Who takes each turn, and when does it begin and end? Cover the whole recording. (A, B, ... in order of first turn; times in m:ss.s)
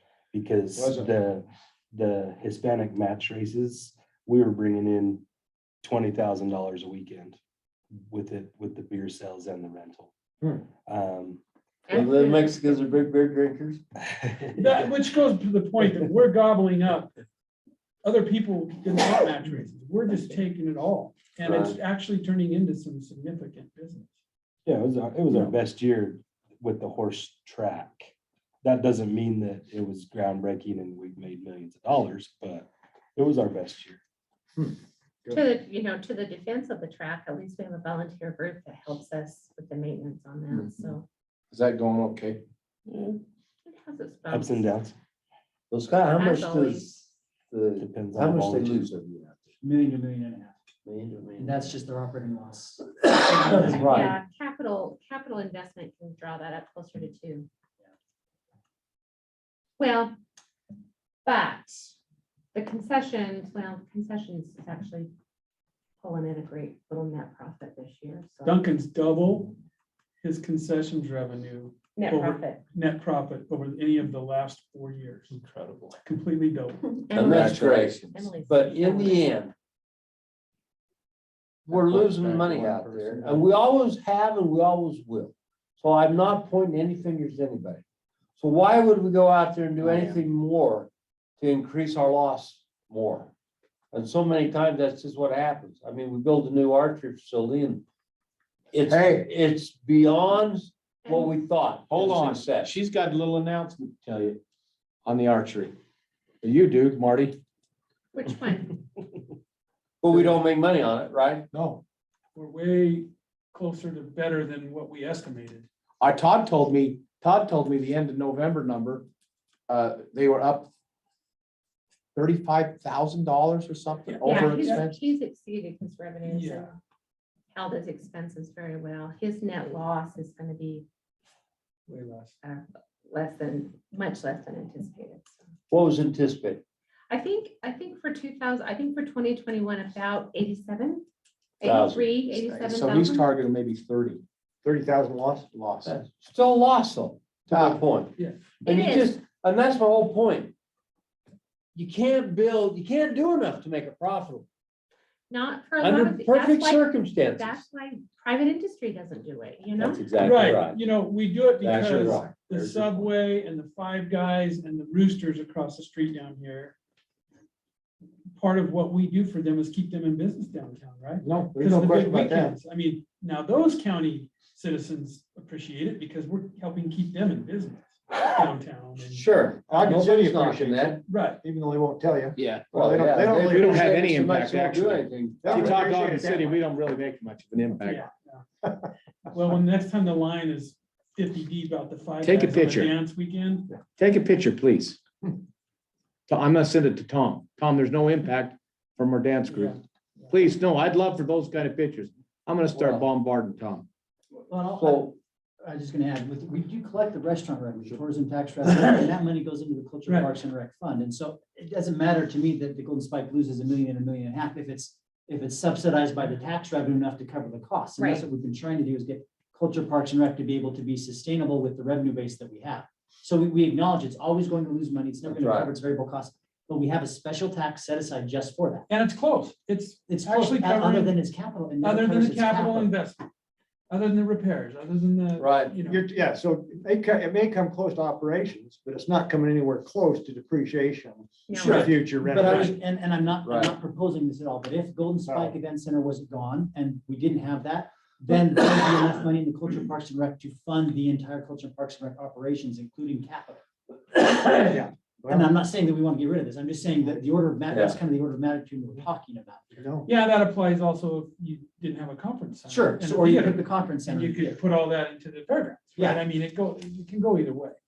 0:00.3-0:05.2 A
0:00.7-0:01.1 B
0:05.8-0:07.4 A
0:07.9-0:10.1 A
0:10.8-0:11.4 A
0:11.9-0:12.8 C
0:11.9-0:13.8 D
0:14.2-0:14.5 A
0:14.6-0:17.1 E
0:18.0-0:24.2 E
0:21.4-0:21.8 D
0:24.6-0:34.0 A
0:35.3-0:41.0 C
0:41.5-0:42.4 B
0:43.6-0:44.7 C
0:44.3-0:44.9 A
0:45.7-0:49.4 D
0:46.2-0:46.9 C
0:47.8-0:48.9 A
0:49.6-0:50.5 F
0:50.8-0:51.6 D
0:51.4-0:54.1 F
0:53.0-0:54.2 D
0:53.8-0:57.5 C
0:59.8-1:00.1 C
1:01.2-1:01.9 C
1:02.5-1:05.1 C
1:06.0-1:08.6 C
1:08.4-1:09.6 E
1:10.2-1:15.4 E
1:11.9-1:12.7 C
1:15.9-1:17.4 E
1:17.0-1:17.4 C
1:17.1-1:19.5 D
1:17.2-1:18.3 B
1:18.1-1:19.4 C
1:21.7-1:23.4 B
1:21.7-1:27.8 D
1:28.4-1:33.3 D
1:29.8-1:30.2 B
1:33.9-1:37.8 D
1:38.7-1:42.7 D
1:38.9-1:39.3 B
1:41.0-1:41.4 C
1:41.9-1:44.4 B
1:45.0-1:45.7 B
1:46.4-1:47.4 B
1:48.1-1:48.8 C
1:50.0-1:51.5 D
1:51.5-1:51.8 B
1:52.3-1:55.6 E
1:56.0-1:59.1 B
1:59.7-2:00.7 B
2:02.1-2:05.0 B
2:04.0-2:04.9 E
2:04.2-2:06.7 C
2:06.2-2:06.7 E
2:07.5-2:10.8 C
2:11.9-2:12.4 E
2:12.4-2:15.4 C
2:15.7-2:16.6 D
2:17.1-2:21.0 C
2:21.6-2:23.3 C
2:21.6-2:22.1 D
2:22.3-2:25.9 B
2:24.7-2:25.3 G
2:25.8-2:28.1 D
2:27.5-2:27.8 B
2:28.2-2:28.5 E
2:28.6-2:29.1 C
2:28.6-2:30.5 D
2:31.7-2:34.5 D
2:35.3-2:40.1 C
2:35.8-2:37.6 D
2:39.8-2:40.8 D
2:40.1-2:46.7 E
2:41.6-2:43.0 D
2:48.4-3:00.0 E
2:51.2-2:52.6 B
2:58.2-2:58.4 D
2:59.1-3:01.0 D
2:59.7-3:03.7 G
3:00.0-3:00.8 B
3:01.0-3:01.4 E
3:02.4-3:02.7 B
3:02.6-3:06.5 D
3:03.4-3:08.1 B
3:05.4-3:06.4 G
3:07.8-3:08.4 E
3:09.3-3:13.8 E
3:12.2-3:12.9 B
3:13.8-3:15.0 B
3:16.3-3:19.8 B
3:19.5-3:20.3 E
3:20.3-3:23.8 B
3:22.7-3:23.0 D
3:24.4-3:48.9 F
3:24.8-3:25.2 D
3:38.0-3:38.2 C
3:45.2-3:45.7 D
3:48.9-3:51.2 E
3:50.1-3:52.9 F
3:51.8-3:53.2 E
3:53.9-3:56.0 E
3:55.4-3:55.8 D
3:55.9-4:00.9 B
3:55.9-3:57.6 G
3:58.6-3:59.2 G
3:59.7-4:02.5 G
4:01.5-4:01.8 C
4:01.5-4:01.9 D
4:01.7-4:02.7 B
4:02.2-4:13.6 F
4:03.4-4:03.7 D
4:14.7-4:15.5 B
4:15.3-4:19.8 F
4:17.7-4:18.0 D
4:19.8-4:20.1 B
4:20.0-4:27.8 E
4:22.7-4:24.6 F
4:26.0-4:26.2 F